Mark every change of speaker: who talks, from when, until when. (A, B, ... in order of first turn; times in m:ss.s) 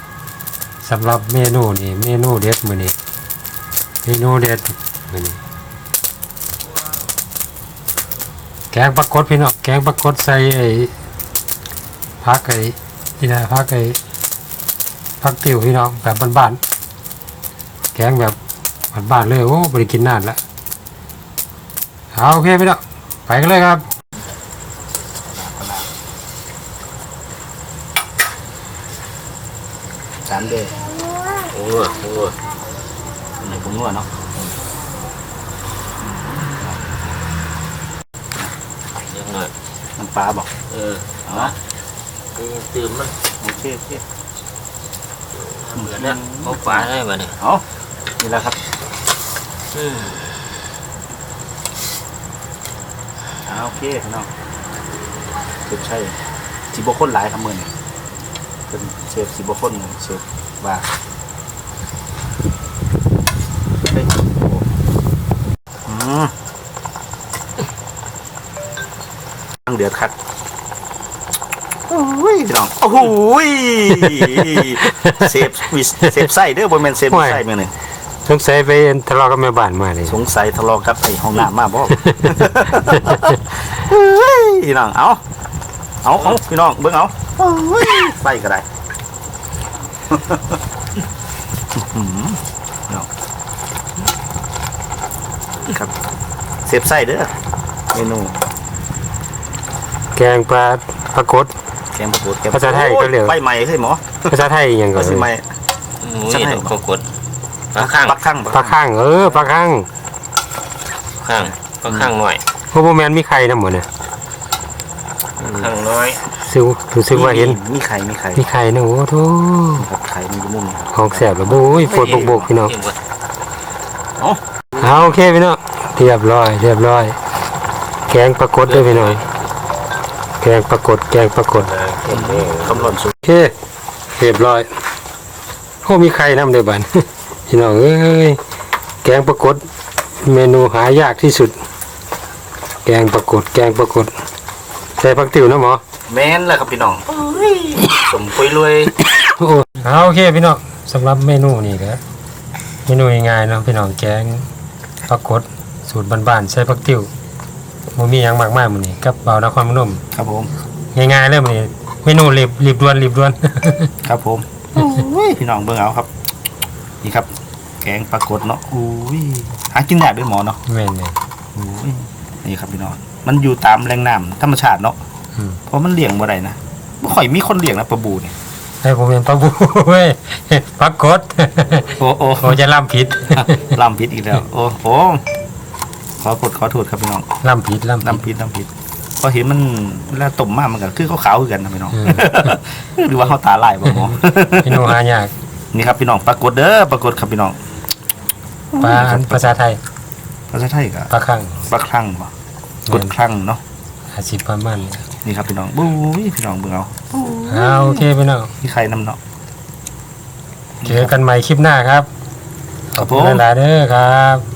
0:00.8-0:02.9 A
0:04.0-0:05.4 A
0:08.7-0:10.9 A
0:12.2-0:14.0 A
0:15.2-0:16.6 A
0:17.9-0:18.4 A
0:18.9-0:20.4 A
0:22.1-0:23.8 A
0:25.3-0:25.9 B
0:30.2-0:30.8 B
0:31.5-0:32.3 C
0:33.4-0:34.1 B
0:39.1-0:39.5 C
0:40.0-0:40.5 B
0:40.7-0:41.5 C
0:41.3-0:41.5 B
0:42.3-0:43.1 C
0:43.4-0:44.0 B
0:45.6-0:47.4 C
0:45.8-0:47.6 B
0:48.2-0:48.6 B
0:49.7-0:50.2 C
0:53.4-0:54.3 B
0:55.6-0:56.2 B
0:56.7-0:57.7 B
0:58.7-1:00.9 B
1:03.8-1:04.7 B
1:05.8-1:06.3 B
1:09.6-1:10.1 B
1:11.9-1:17.7 B
1:14.0-1:15.3 A
1:17.1-1:17.4 A
1:18.2-1:20.2 A
1:20.1-1:25.2 B
1:21.9-1:23.2 A
1:26.0-1:28.6 B
1:30.1-1:30.6 B
1:31.7-1:33.1 B
1:35.7-1:35.9 B
1:36.6-1:37.3 B
1:37.9-1:38.3 B
1:40.1-1:41.5 A
1:41.9-1:44.3 B
1:42.5-1:43.3 A
1:44.3-1:45.3 A
1:44.9-1:45.5 B
1:46.0-1:47.0 C
1:46.3-1:46.7 B
1:47.7-1:48.2 C
1:47.8-1:48.8 B
1:48.5-1:49.9 A
1:51.2-1:52.4 C
1:51.9-1:52.1 B
1:52.7-1:53.9 A
1:55.4-1:55.7 B
1:55.4-1:56.2 C
1:56.4-1:57.6 A
1:57.1-1:58.5 B
1:58.4-1:59.8 A
1:59.8-2:02.5 B
2:00.9-2:02.7 A
2:01.9-2:03.0 C
2:04.8-2:07.2 A
2:08.1-2:09.2 A
2:08.7-2:09.2 C
2:10.4-2:11.7 A
2:11.7-2:12.9 C
2:12.1-2:13.1 B
2:13.2-2:13.5 A
2:14.1-2:14.7 A
2:15.8-2:18.4 A
2:19.0-2:19.6 A
2:20.2-2:21.6 A
2:22.8-2:24.1 A
2:25.0-2:25.8 A
2:26.1-2:28.9 B
2:29.3-2:32.0 A
2:32.8-2:34.5 A
2:35.1-2:37.1 A
2:37.9-2:40.0 A
2:40.1-2:40.5 B
2:40.9-2:43.9 A
2:44.0-2:46.1 B
2:47.0-2:47.3 B
2:47.8-2:50.6 B
2:50.7-2:51.1 A
2:51.6-2:55.0 B
2:55.7-2:58.3 B
2:58.8-3:03.7 A
3:01.9-3:02.6 B
3:03.3-3:05.2 B
3:06.2-3:07.2 B
3:07.4-3:08.2 A
3:08.0-3:15.0 B
3:12.0-3:12.5 A
3:13.8-3:15.3 A
3:15.7-3:17.6 B
3:18.7-3:19.6 B
3:18.8-3:19.8 A
3:20.5-3:21.1 B
3:21.1-3:21.7 A
3:21.7-3:22.3 B
3:22.9-3:23.1 A
3:22.9-3:23.6 B
3:24.1-3:25.0 A
3:25.2-3:28.1 B
3:27.5-3:28.5 A
3:28.6-3:29.2 B
3:30.8-3:31.2 B
3:30.8-3:32.1 A
3:32.9-3:34.4 A
3:32.9-3:33.4 B